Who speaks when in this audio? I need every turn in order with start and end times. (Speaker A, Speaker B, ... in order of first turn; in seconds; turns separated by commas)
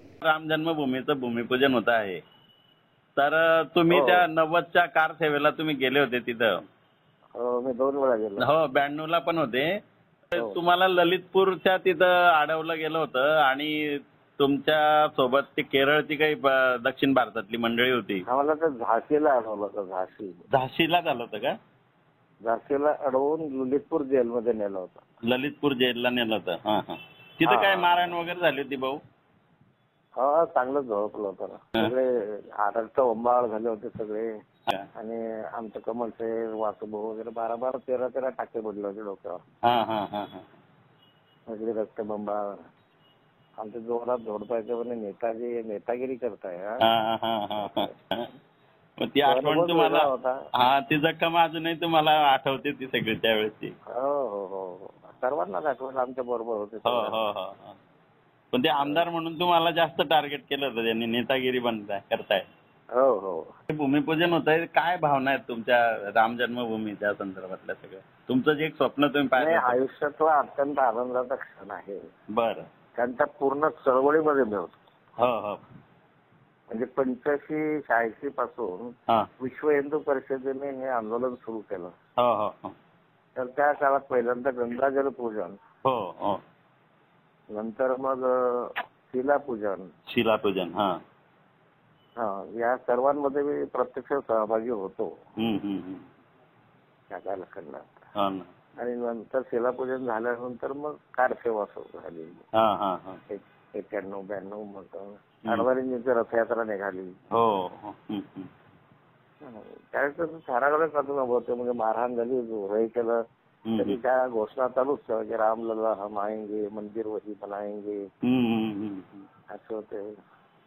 Speaker A: 0.2-2.2, Speaker A: 3.2-6.6, Speaker B: 3.9-4.2, Speaker B: 7.3-8.4, Speaker A: 8.4-9.7, Speaker A: 10.3-18.2, Speaker B: 18.2-20.4, Speaker A: 20.5-21.5, Speaker B: 22.4-25.0, Speaker A: 25.2-29.0, Speaker B: 27.4-28.0, Speaker B: 30.2-34.3, Speaker B: 35.0-39.4, Speaker A: 39.6-40.4, Speaker B: 41.5-42.6, Speaker B: 43.6-46.8, Speaker A: 46.8-48.3, Speaker B: 47.6-48.0, Speaker A: 49.0-53.7, Speaker B: 49.2-50.3, Speaker B: 53.9-57.3, Speaker A: 56.9-57.7, Speaker A: 58.5-62.5, Speaker B: 58.8-59.0, Speaker B: 62.9-63.5, Speaker A: 63.7-69.8, Speaker B: 69.3-72.1, Speaker A: 72.3-72.7, Speaker B: 73.0-74.8, Speaker A: 75.2-75.6, Speaker B: 76.7-81.9, Speaker A: 82.2-82.7, Speaker B: 83.3-85.6, Speaker A: 85.8-86.4, Speaker B: 87.5-89.9, Speaker A: 90.1-91.0, Speaker B: 92.2-95.1, Speaker A: 95.4-96.1, Speaker B: 97.1-98.0, Speaker A: 98.2-98.5, Speaker B: 98.8-102.4, Speaker A: 102.6-103.2, Speaker B: 103.3-107.1, Speaker A: 107.3-108.5, Speaker B: 109.4-113.2, Speaker A: 113.7-114.0, Speaker B: 113.8-118.0, Speaker A: 118.2-119.2, Speaker B: 119.5-120.0